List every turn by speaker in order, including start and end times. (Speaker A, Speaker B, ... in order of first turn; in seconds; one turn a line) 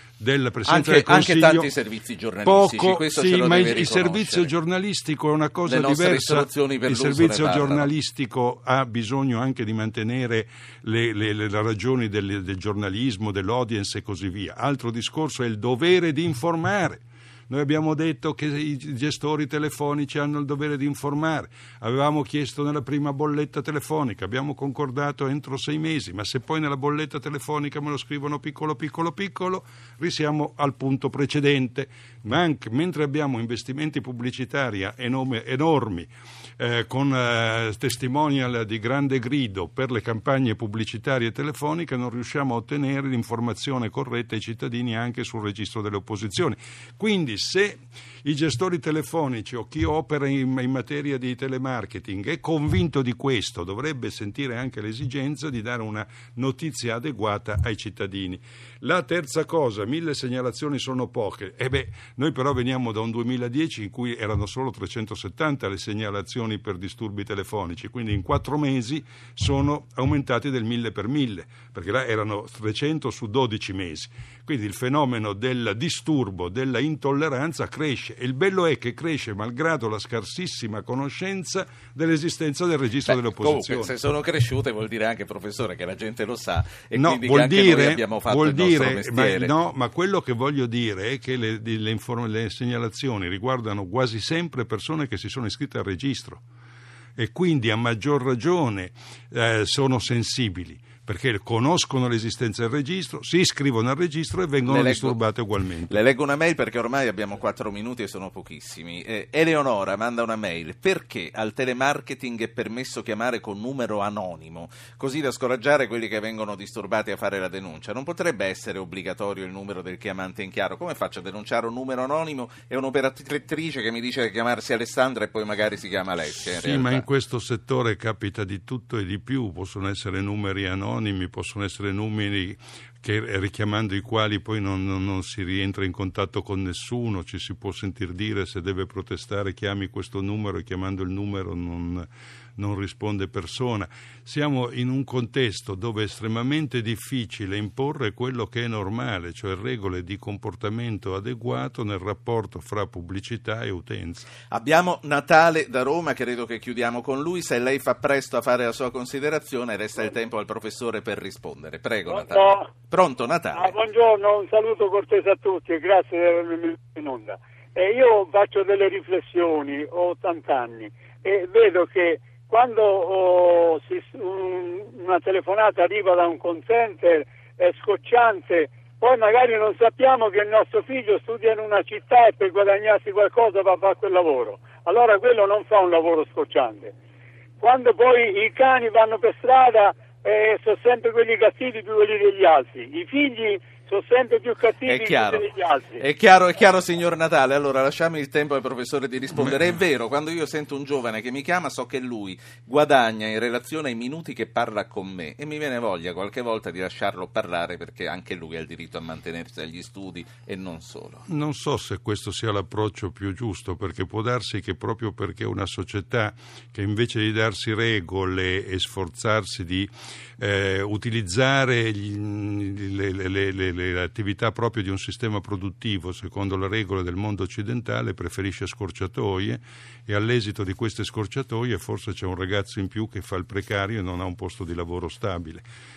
Speaker A: 0.2-1.7
Speaker B: 0.7-4.5
Speaker A: 2.4-83.9
Speaker B: 5.7-7.9
Speaker B: 83.1-89.5
Speaker A: 86.9-96.4
Speaker A: 97.2-106.0
Speaker B: 104.7-105.2
Speaker B: 105.9-127.0
Speaker A: 126.5-154.3
Speaker B: 154.5-163.7
Speaker C: 162.1-162.8
Speaker C: 163.5-186.9
Speaker C: 187.6-196.0
Speaker B: 194.9-195.4
Speaker B: 196.0-211.2
Speaker A: 211.3-235.6